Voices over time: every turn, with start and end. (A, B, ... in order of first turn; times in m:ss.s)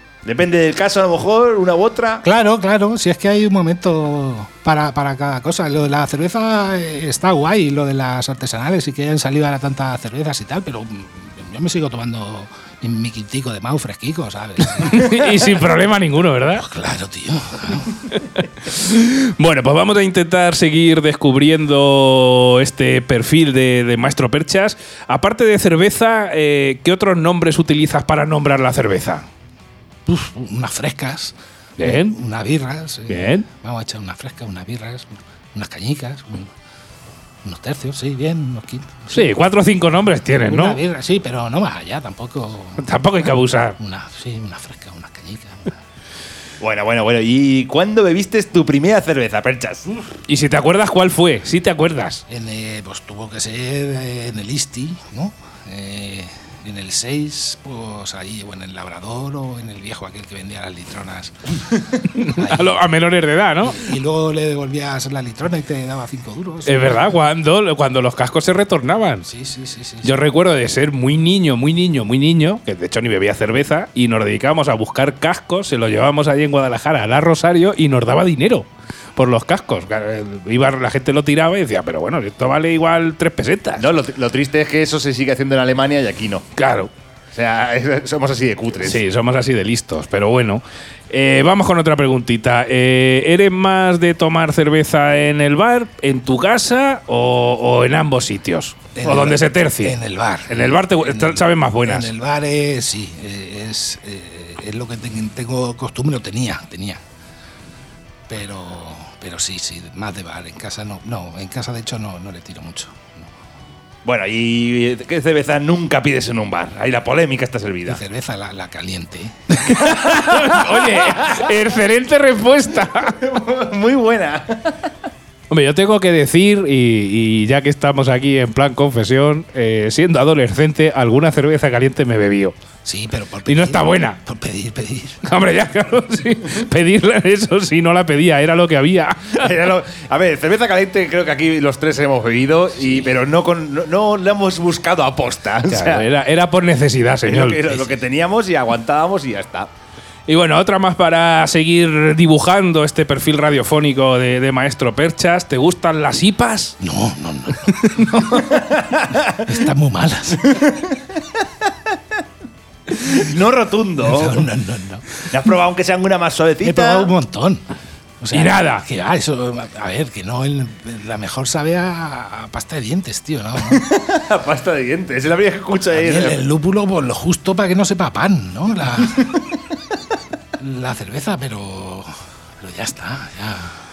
0:00.2-0:02.2 A
0:02.2-0:15.5 B
0:14.7-0:16.7 C
0:16.6-0:17.9 B
0:18.0-0:29.2 C
0:30.1-0:36.5 B
0:31.8-0:32.2 C
0:33.1-0:33.5 C
0:37.4-0:39.3 B
0:39.1-0:40.8 C
0:40.4-0:42.8 B
0:42.8-0:43.8 C
0:43.8-0:45.7 B
0:46.6-0:50.0 A
0:50.3-0:52.2 C
0:52.3-1:01.6 B
1:02.0-1:04.0 C
1:02.3-1:02.8 B
1:03.6-1:07.1 B
1:06.6-1:09.2 C
1:09.3-1:10.1 B
1:10.0-1:23.9 C
1:23.8-1:26.4 A
1:26.6-1:26.9 C
1:27.3-1:29.0 A
1:28.8-1:42.1 C
1:39.0-1:47.0 B
1:48.3-1:53.3 B
1:54.0-1:58.0 A
1:57.9-1:59.7 B
1:59.6-2:03.3 C
2:00.0-2:01.5 A
2:03.2-2:04.8 A
2:05.5-2:12.5 C
2:12.8-2:15.2 B
2:13.4-2:14.2 C
2:15.2-2:19.5 C
2:19.3-2:26.0 A
2:25.6-2:27.8 C
2:27.2-2:29.7 A
2:30.3-2:36.8 C
2:36.8-2:38.5 B
2:37.5-2:38.2 C
2:38.3-2:39.5 A
2:39.3-2:40.6 B
2:40.4-2:41.2 A
2:42.9-2:44.4 A
2:44.0-2:45.0 B
2:45.3-2:47.1 A
2:46.6-2:47.6 B
2:48.2-2:53.8 B
2:48.3-2:48.8 C
2:53.6-2:56.4 A
2:55.9-2:59.3 B
3:00.6-3:02.1 B
3:02.6-3:03.7 B